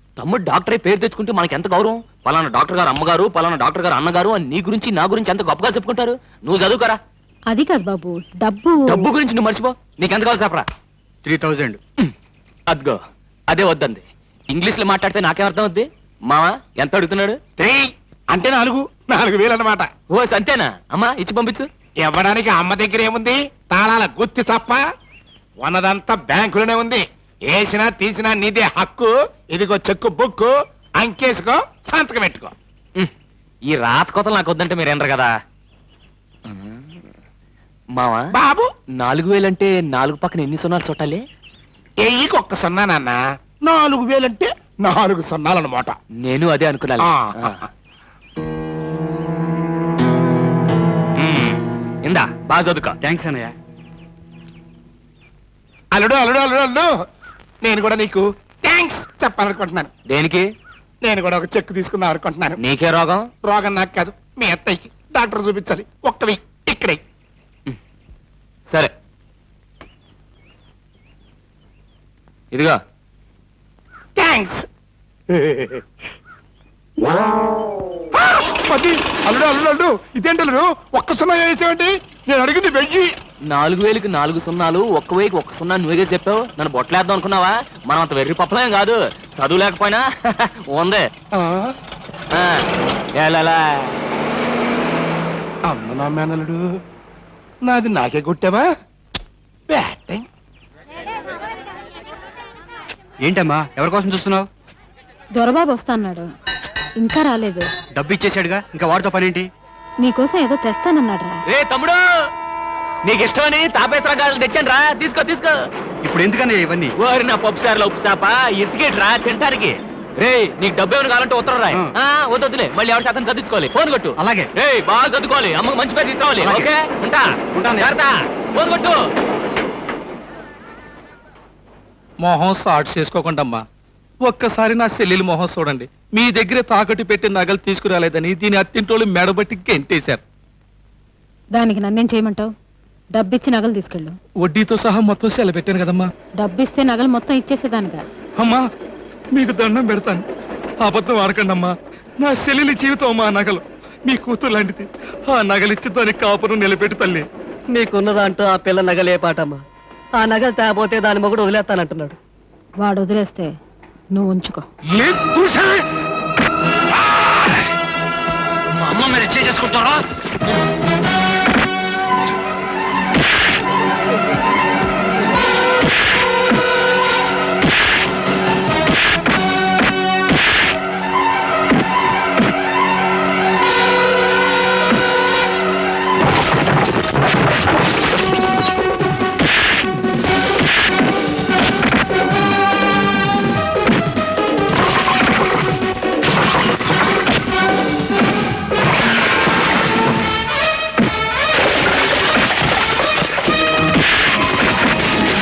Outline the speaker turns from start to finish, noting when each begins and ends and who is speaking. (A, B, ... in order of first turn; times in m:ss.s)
0:00.2-0:07.0 A
0:07.5-0:09.1 B
0:08.9-0:10.6 A
0:11.2-0:11.8 C
0:12.7-0:17.4 A
0:17.6-0:19.9 D
0:20.1-0:21.7 A
0:22.1-0:24.8 D
0:25.6-0:30.5 D
0:31.0-0:32.5 D
0:33.7-0:35.3 A
0:36.5-0:36.8 A
0:38.0-0:38.2 A
0:39.0-0:41.2 A
0:42.0-0:45.9 D
0:46.2-0:47.6 A
0:51.2-0:53.0 A
0:53.0-0:53.5 C
0:56.0-0:56.9 D
0:57.6-0:59.9 D
1:00.1-1:00.5 A
1:01.1-1:02.5 D
1:02.6-1:03.3 A
1:03.6-1:07.0 D
1:12.5-1:12.8 A
1:14.2-1:14.6 D
1:15.4-1:15.8 D
1:18.2-1:23.1 D
1:23.5-1:31.0 A
1:32.3-1:33.9 A
1:35.7-1:36.6 D
1:37.7-1:38.6 D
1:39.8-1:40.2 D
1:43.2-1:44.5 C
1:45.4-1:46.3 B
1:47.0-1:47.7 B
1:47.9-1:49.5 C
1:50.0-1:51.4 B
1:51.5-1:52.0 A
1:53.0-1:55.6 A
1:56.0-1:56.9 C
1:57.0-2:07.2 A
2:04.2-2:04.5 C
2:06.4-2:06.7 C
2:07.5-2:07.9 C
2:07.8-2:09.0 A
2:12.2-2:13.6 E
2:14.2-2:20.2 E
2:21.5-2:22.5 B
2:23.1-2:24.1 B
2:24.4-2:26.1 E
2:26.4-2:28.0 B
2:29.3-2:30.2 E
2:30.8-2:37.2 E
2:37.7-2:39.6 F
2:40.2-2:42.2 F
2:42.8-2:43.5 B
2:44.1-2:44.6 B
2:48.8-2:49.9 A